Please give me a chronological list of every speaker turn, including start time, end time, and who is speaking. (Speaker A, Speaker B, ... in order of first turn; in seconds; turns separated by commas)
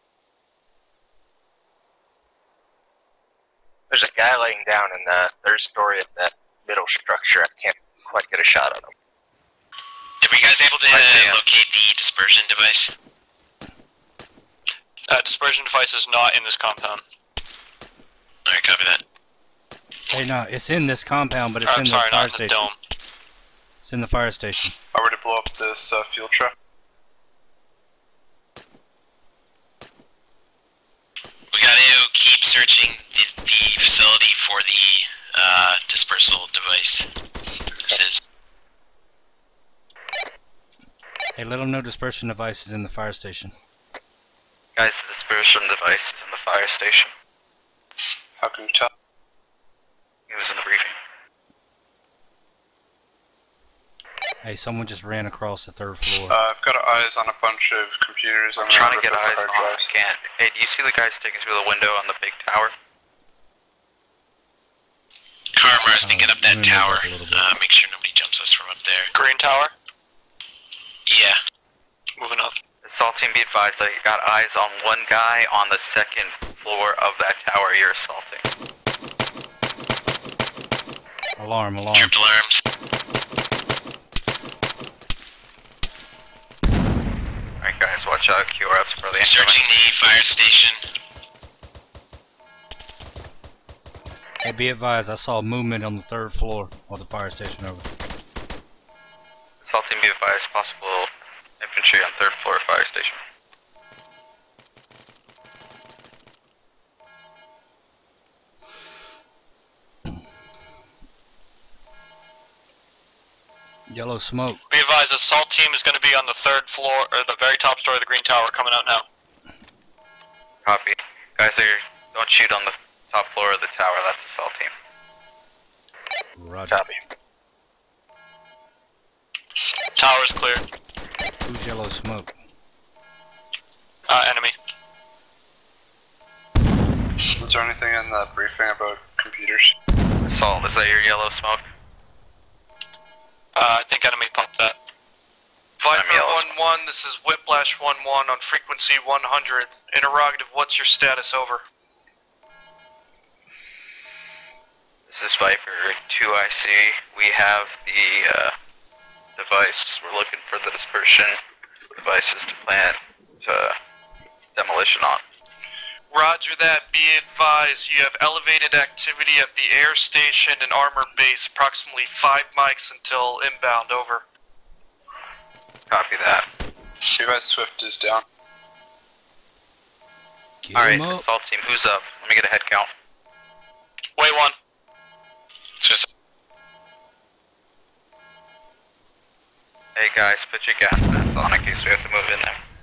Speaker A: 3.9-8.9, Speaker B: 10.2-12.9, Speaker C: 10.9-11.4, Speaker D: 15.1-17.0, Speaker B: 18.5-19.0, Speaker E: 20.1-22.7, Speaker D: 21.6-22.8, Speaker E: 23.8-24.7, Speaker F: 24.9-26.5, Speaker B: 31.5-37.0, Speaker B: 37.8-38.2, Speaker E: 41.3-43.5, Speaker C: 44.8-47.1, Speaker F: 48.4-48.9, Speaker C: 50.3-50.9, Speaker E: 54.4-56.4, Speaker F: 56.3-59.9, Speaker C: 58.6-62.7, Speaker B: 65.5-69.1, Speaker E: 66.0-67.5, Speaker D: 69.1-69.7, Speaker B: 71.1-71.4, Speaker D: 72.2-72.5, Speaker C: 72.8-78.4, Speaker E: 81.4-82.1, Speaker B: 81.9-82.6, Speaker C: 87.6-89.6, Speaker B: 89.2-90.8, Speaker E: 94.4-97.8, Speaker C: 99.6-101.1, Speaker C: 101.6-103.2, Speaker E: 113.9-114.6, Speaker D: 114.7-119.0, Speaker C: 120.6-124.7, Speaker E: 126.3-126.8, Speaker A: 126.7-127.0, Speaker D: 129.9-130.6, Speaker E: 131.4-132.3, Speaker D: 134.1-134.5, Speaker F: 137.4-139.7, Speaker C: 140.3-141.6, Speaker D: 143.5-144.8, Speaker G: 145.8-151.6, Speaker C: 145.9-146.6, Speaker C: 155.1-158.5, Speaker C: 159.3-161.4, Speaker C: 162.0-163.8, Speaker C: 164.5-165.2, Speaker G: 166.1-174.2, Speaker C: 175.9-176.4, Speaker F: 177.2-178.2, Speaker E: 180.6-181.2, Speaker C: 180.7-182.9, Speaker D: 184.2-184.6, Speaker B: 185.8-186.1, Speaker C: 189.9-192.6